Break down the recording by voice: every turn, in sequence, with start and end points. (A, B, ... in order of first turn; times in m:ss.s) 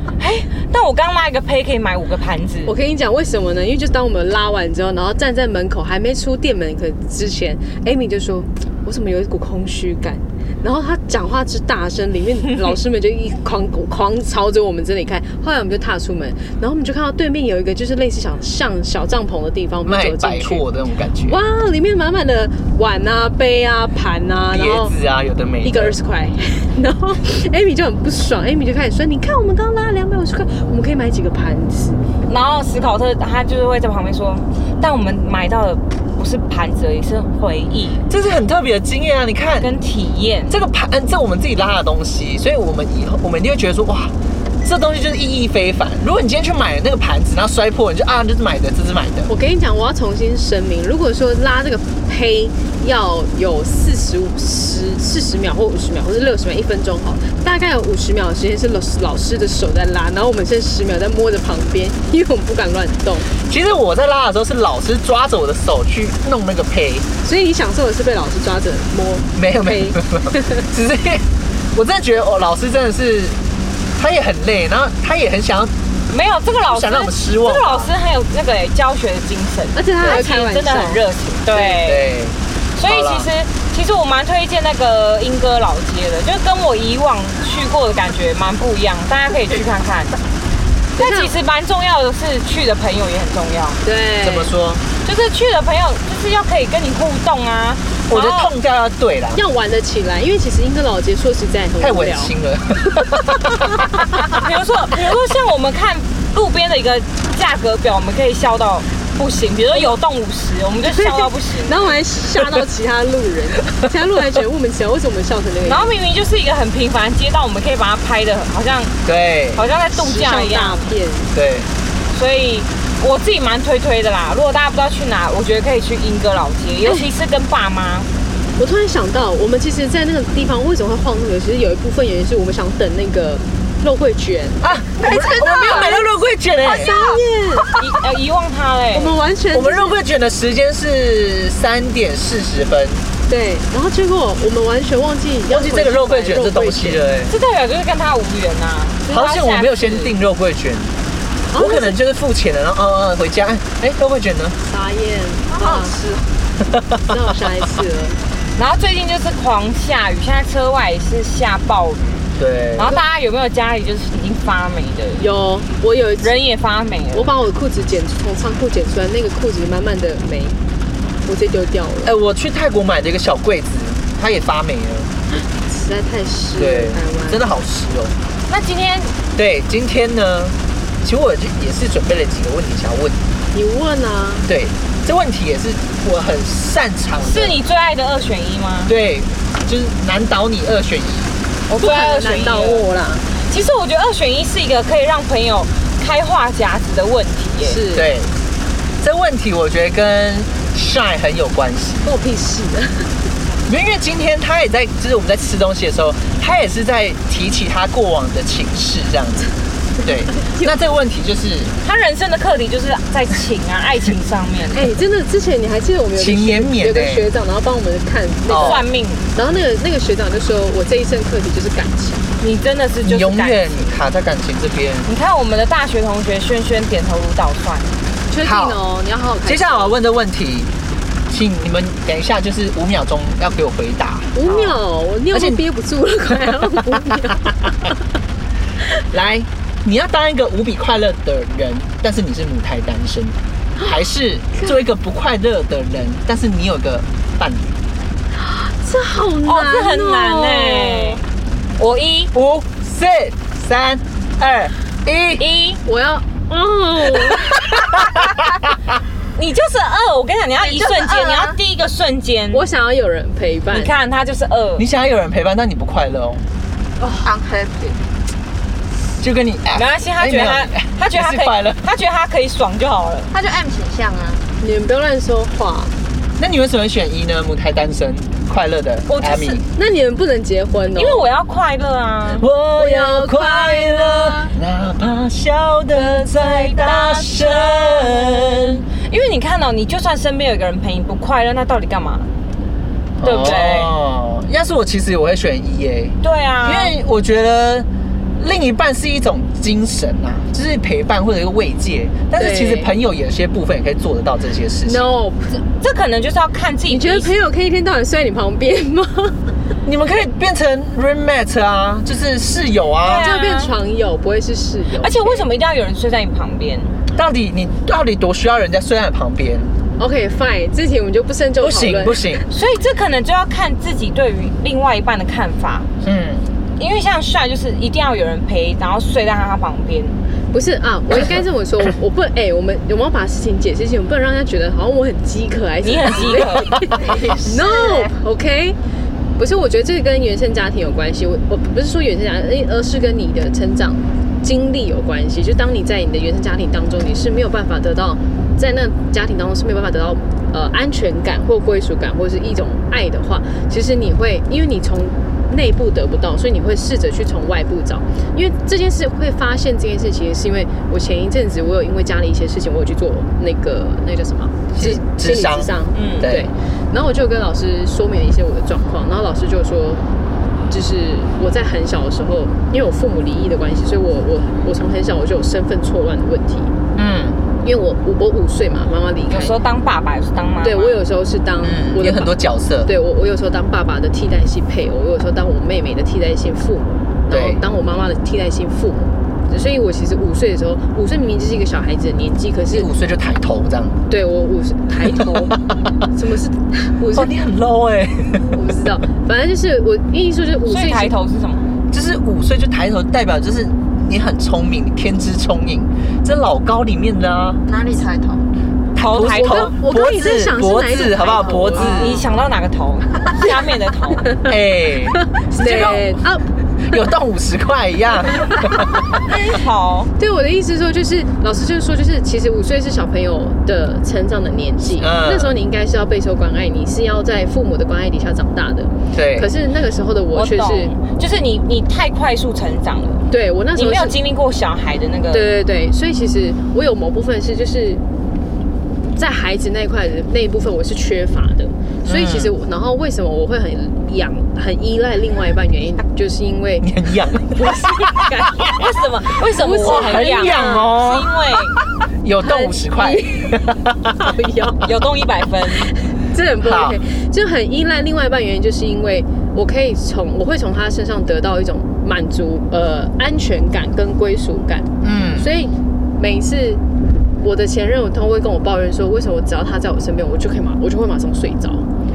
0:00.2-0:02.7 A
0:02.6-0:20.6 B
0:19.8-0:21.4 C
0:21.2-0:24.9 B
0:24.5-0:26.0 C
0:25.6-0:32.0 B
0:32.2-0:38.0 A
0:38.1-0:39.7 C
0:39.6-0:40.6 A
0:40.5-0:49.3 C
0:49.3-1:03.3 B
1:03.4-1:07.1 C
1:07.2-1:10.7 B
1:09.4-1:13.4 C
1:14.0-1:15.7 C
1:16.1-1:22.1 A
1:16.6-1:17.9 C
1:19.7-1:21.0 B
1:20.0-1:20.2 C
1:21.5-1:23.3 C
1:22.8-1:30.2 A
1:31.0-1:31.3 B
1:31.0-1:33.8 A
1:33.8-1:34.5 B
1:34.2-1:34.8 C
1:35.0-1:38.5 A
1:38.1-1:39.4 C
1:39.3-1:42.3 B
1:41.8-1:44.2 C
1:43.1-1:43.9 B
1:44.2-1:52.0 A
1:50.8-1:55.9 B
1:55.6-1:58.9 A
1:59.0-1:59.6 C
1:59.5-2:00.8 A
1:59.9-2:01.3 B
2:01.3-2:01.7 C
2:02.1-2:08.1 A
2:08.6-2:16.1 B
2:14.6-2:17.2 C
2:16.6-2:17.7 B
2:17.8-2:19.2 A
2:18.9-2:20.0 B
2:19.5-2:23.0 C
2:23.3-2:27.0 B
2:25.5-2:27.3 C
2:27.3-2:30.1 A
2:29.1-2:30.9 C
2:31.5-2:32.0 B
2:31.5-2:34.6 C
2:34.6-2:36.1 B
2:35.6-2:36.2 D
2:36.7-2:37.2 C
2:37.0-2:38.2 B
2:38.6-2:42.1 A
2:42.4-2:42.9 C
2:42.8-2:45.2 A
2:45.2-2:46.3 B
2:46.2-2:47.3 A
2:47.1-2:50.6 B
2:51.2-2:52.1 B
2:52.0-2:55.1 C
2:55.6-2:57.4 B
2:56.6-2:58.1 C
2:58.5-2:59.1 A
2:59.4-3:03.2 C
3:03.5-3:04.5 B
3:04.5-3:07.6 C
3:07.2-3:08.9 A
3:08.9-3:11.3 C
3:11.7-3:12.8 A
3:11.8-3:13.3 B
3:13.4-3:17.8 A
3:17.6-3:18.1 B
3:17.9-3:18.3 C
3:19.0-3:22.1 C
3:22.0-3:23.3 B
3:23.7-3:29.5 C
3:30.0-3:31.7 C
3:30.0-3:30.7 B
3:31.8-3:34.9 A
3:34.7-3:42.3 B
3:36.1-3:37.3 C
3:38.5-3:38.8 C
3:38.6-3:39.2 A
3:42.4-3:43.9 A
3:43.0-3:45.1 C
3:45.0-3:47.9 A
3:48.3-3:49.9 B
3:48.4-3:48.8 C
3:49.4-3:50.7 C
3:51.3-3:54.3 C
3:54.3-3:58.0 B
3:54.4-3:54.8 A
3:55.3-3:55.6 C
3:59.0-4:07.7 C
4:08.4-4:11.2 B
4:09.4-4:11.2 A
4:11.8-4:12.3 A
4:12.3-4:15.4 C
4:15.4-4:15.8 A
4:15.8-4:18.0 B
4:17.3-4:18.4 C
4:19.4-4:22.6 A
4:20.7-4:21.6 D
4:22.5-4:23.9 B
4:23.7-4:24.8 A
4:24.8-4:26.4 C
4:27.2-4:28.0 D
4:29.2-4:31.8 C
4:29.7-4:33.3 A
4:33.3-4:34.4 D
4:34.6-4:35.9 B
4:36.4-4:39.7 C
4:39.1-4:39.6 A
4:39.7-4:41.2 B
4:40.9-4:42.5 A
4:42.4-4:48.8 C
4:42.8-4:44.4 B
4:46.0-4:52.3 A
4:53.2-4:57.9 C
4:53.2-4:53.9 A
4:56.2-4:56.9 A
4:58.4-5:05.0 C
5:02.4-5:02.9 B
5:04.8-5:05.6 B
5:05.8-5:07.3 A
5:06.9-5:09.5 B
5:09.8-5:13.2 C
5:13.0-5:13.7 A
5:13.0-5:15.5 B
5:15.0-5:17.0 A
5:17.1-5:19.7 C
5:20.0-5:22.4 B
5:21.6-5:22.4 C
5:22.5-5:25.9 A
5:26.0-5:26.5 C
5:26.8-5:30.2 A
5:30.5-5:38.8 B
5:35.8-5:37.1 A
5:36.7-5:37.0 C
5:37.8-5:38.1 C
5:39.4-6:10.0 B
6:04.7-6:06.5 C
6:05.9-6:06.3 A
6:10.7-6:16.7 B
6:16.9-6:17.4 C
6:17.6-6:19.6 B
6:19.3-6:21.0 A
6:20.6-6:32.9 B
6:21.6-6:22.9 C
6:27.3-6:27.6 C
6:32.7-6:34.0 C
6:34.1-6:37.3 B
6:35.0-6:35.7 C
6:37.1-6:38.6 C
6:38.5-6:41.1 B
6:40.6-6:41.7 A
6:41.9-6:47.6 C
6:47.7-6:48.4 D
6:48.9-6:52.2 C
6:49.0-6:49.7 A
6:49.3-6:52.2 B
6:51.7-6:54.3 A
6:54.4-6:56.2 C
6:55.2-6:56.5 B
6:56.8-6:59.2 C
6:58.4-6:58.8 B
6:59.3-7:00.1 A
7:00.2-7:10.9 B
7:05.0-7:05.5 C
7:09.1-7:09.5 C
7:10.3-7:13.2 A
7:13.3-7:14.2 B
7:13.7-7:15.5 A
7:15.3-7:18.0 B
7:19.1-7:28.8 B
7:22.0-7:22.5 C
7:26.8-7:28.4 C
7:28.7-7:31.8 A
7:29.4-7:31.0 B
7:29.8-7:31.3 C
7:32.2-7:34.2 C
7:32.4-7:33.6 B
7:34.1-7:34.9 B
7:34.8-7:35.9 A
7:35.8-7:46.8 B
7:36.6-7:37.0 C
7:45.0-7:45.5 C
7:47.4-7:51.8 B